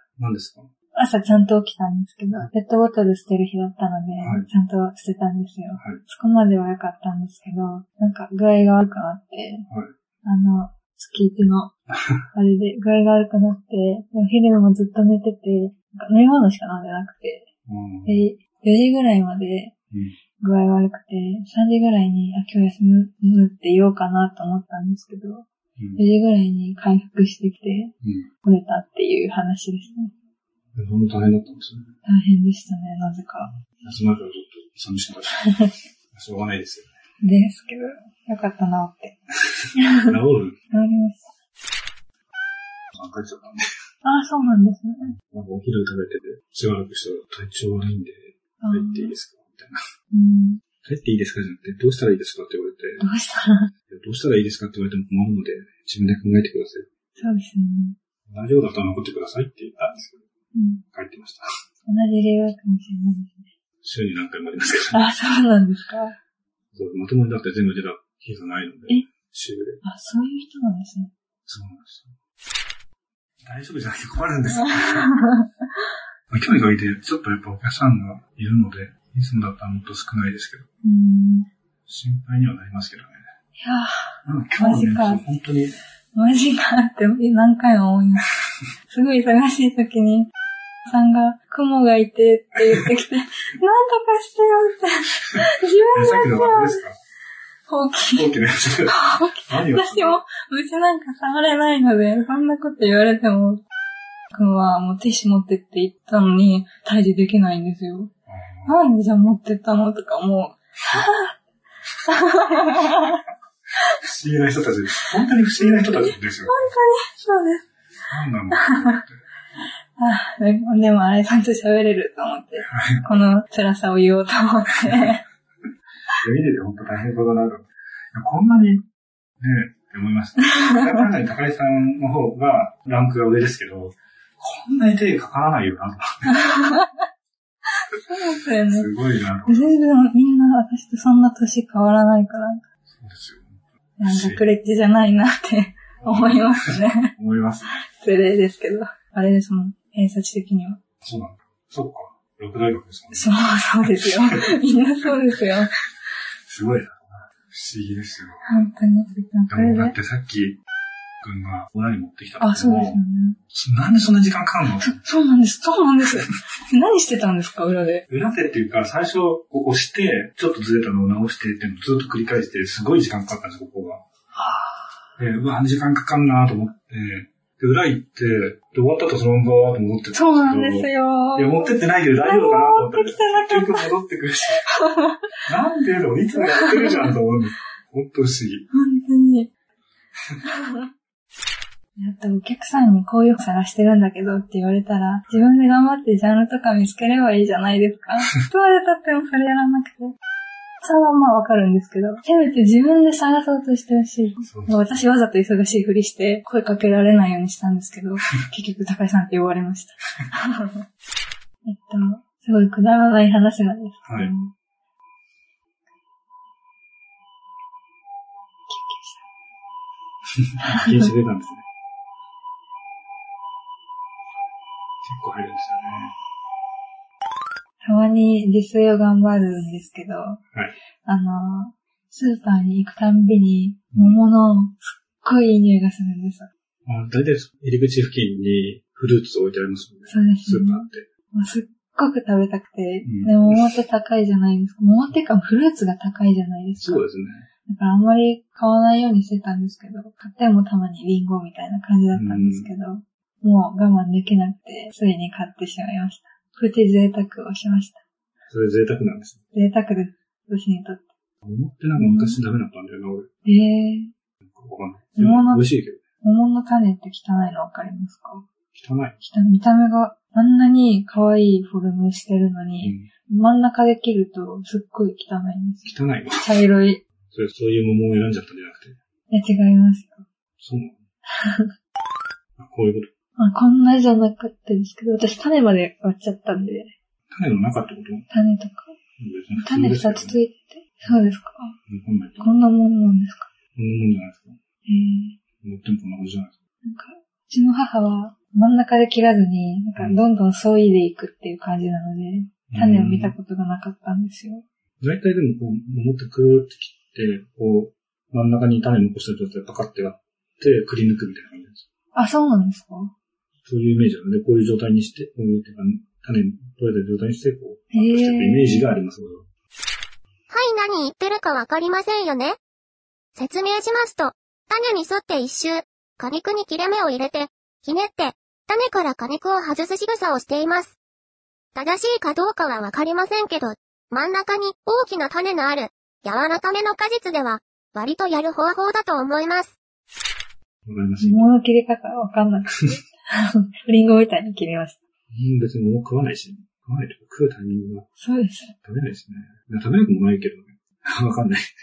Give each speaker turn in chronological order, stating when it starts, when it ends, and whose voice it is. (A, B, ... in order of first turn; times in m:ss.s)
0:00.2-0:00.7 A
0:01.0-0:09.7 B
0:04.2-0:04.5 A
0:05.8-0:06.0 A
0:10.2-0:11.8 B
0:12.3-0:17.5 B
0:17.7-0:18.3 A
0:18.0-0:19.8 B
0:19.9-0:20.2 A
0:20.4-0:30.1 B
0:25.8-0:26.0 A
0:28.0-0:28.3 A
0:30.8-0:31.9 A
0:32.0-0:33.6 B
0:33.8-0:35.5 A
0:36.1-0:36.9 A
0:37.2-0:39.2 B
0:39.8-0:40.2 B
0:40.0-0:40.6 A
0:40.7-0:41.3 B
0:42.9-0:43.6 A
0:44.0-0:45.1 B
0:45.0-0:49.8 A
0:48.6-0:49.2 B
0:50.1-0:50.6 B
0:50.8-0:53.0 A
0:53.0-0:53.7 B
0:53.9-0:56.9 A
0:57.2-0:58.0 B
0:58.3-1:00.2 A
1:00.5-1:00.8 B
1:00.9-1:01.4 A
1:01.9-1:03.5 B
1:03.8-1:05.1 A
1:04.9-1:06.2 B
1:06.7-1:09.8 A
1:09.8-1:11.1 B
1:11.5-1:12.1 A
1:13.4-1:15.1 A
1:14.5-1:15.5 B
1:16.3-1:20.7 A
1:20.8-1:21.5 B
1:21.9-1:23.2 A
1:23.6-1:25.2 B
1:24.2-1:25.8 A
1:26.2-1:28.3 B
1:28.9-1:30.3 B
1:30.9-1:36.8 B
1:35.9-1:37.0 A
1:37.7-1:38.4 B
1:38.1-1:40.2 A
1:38.9-1:43.6 B
1:44.3-1:48.1 B
1:48.3-1:48.8 A
1:48.6-1:51.4 B
1:52.0-1:53.2 B
1:52.5-1:53.2 A
1:54.0-1:56.7 A
1:55.6-1:57.6 B
1:58.1-1:59.2 A
1:58.5-1:59.0 B
2:00.0-2:05.2 B
2:02.7-2:03.3 A
2:04.8-2:05.2 A
2:06.2-2:08.8 A
2:09.4-2:16.6 A
2:10.5-2:10.8 B
2:16.3-2:17.0 B
2:17.9-2:18.9 B
2:18.7-2:19.8 A
2:19.5-2:22.6 B
2:22.9-2:24.4 A
2:24.0-2:27.1 B
2:26.0-2:27.8 A
2:27.7-2:30.8 B
2:31.0-2:34.6 A
2:33.1-2:35.7 B
2:36.5-2:38.7 A
2:38.5-2:40.0 B
2:39.5-2:40.6 A
2:41.2-2:43.0 A
2:42.4-2:43.4 B
2:43.5-2:45.0 A
2:44.8-2:48.0 B
2:48.1-2:54.0 A
2:54.4-2:54.9 B
2:55.2-3:04.7 A
3:00.1-3:03.9 B
3:04.6-3:05.2 B
3:05.5-3:08.7 A
3:06.4-3:07.1 B
3:08.7-3:09.5 B
3:10.4-3:10.9 B
3:12.0-3:20.2 B
3:20.8-3:30.8 B
3:24.4-3:25.0 A
3:31.6-3:34.5 B
3:34.1-3:34.3 A
3:38.7-3:39.2 B
3:40.4-3:41.6 A
3:40.6-3:41.2 B
3:45.0-3:46.2 A
3:47.8-3:50.4 B
3:51.0-3:56.5 B
3:53.9-3:54.2 A
3:56.9-4:01.1 A
4:00.1-4:07.1 B
4:03.0-4:03.8 A
4:06.8-4:07.5 A
4:07.7-4:18.0 B
4:12.1-4:12.7 A
4:18.5-4:19.4 A
4:19.5-4:21.1 B
4:21.4-4:23.3 A
4:22.0-4:22.4 B
4:23.4-4:24.1 B
4:24.4-4:26.0 A
4:25.2-4:25.7 B
4:26.2-4:28.5 B
4:28.7-4:29.2 A
4:29.2-4:37.0 B
4:32.8-4:33.1 A
4:35.8-4:36.6 A
4:37.3-4:39.0 A
4:39.3-4:40.2 B
4:40.6-4:41.0 A
4:41.4-4:41.7 B
4:42.6-4:43.1 A
4:43.4-4:46.9 B
4:47.3-4:48.3 A
4:48.3-4:49.0 B
4:49.2-4:50.4 A
4:49.6-4:51.8 B
4:51.9-4:52.5 A
4:52.4-4:53.5 B
4:53.8-4:54.6 A
4:54.9-4:55.4 B
4:55.6-4:56.5 A
4:56.8-5:04.6 B
5:00.0-5:00.2 A
5:02.7-5:03.4 A
5:05.0-5:11.8 A
5:12.1-5:13.1 B
5:13.7-5:19.5 A
5:17.9-5:19.0 B
5:20.5-5:22.6 C
5:23.4-5:31.0 C
5:31.8-5:39.8 C
5:40.9-5:41.5 A
5:41.2-5:45.0 B
5:45.3-5:48.1 A
5:48.2-5:48.8 B
5:48.8-5:51.7 A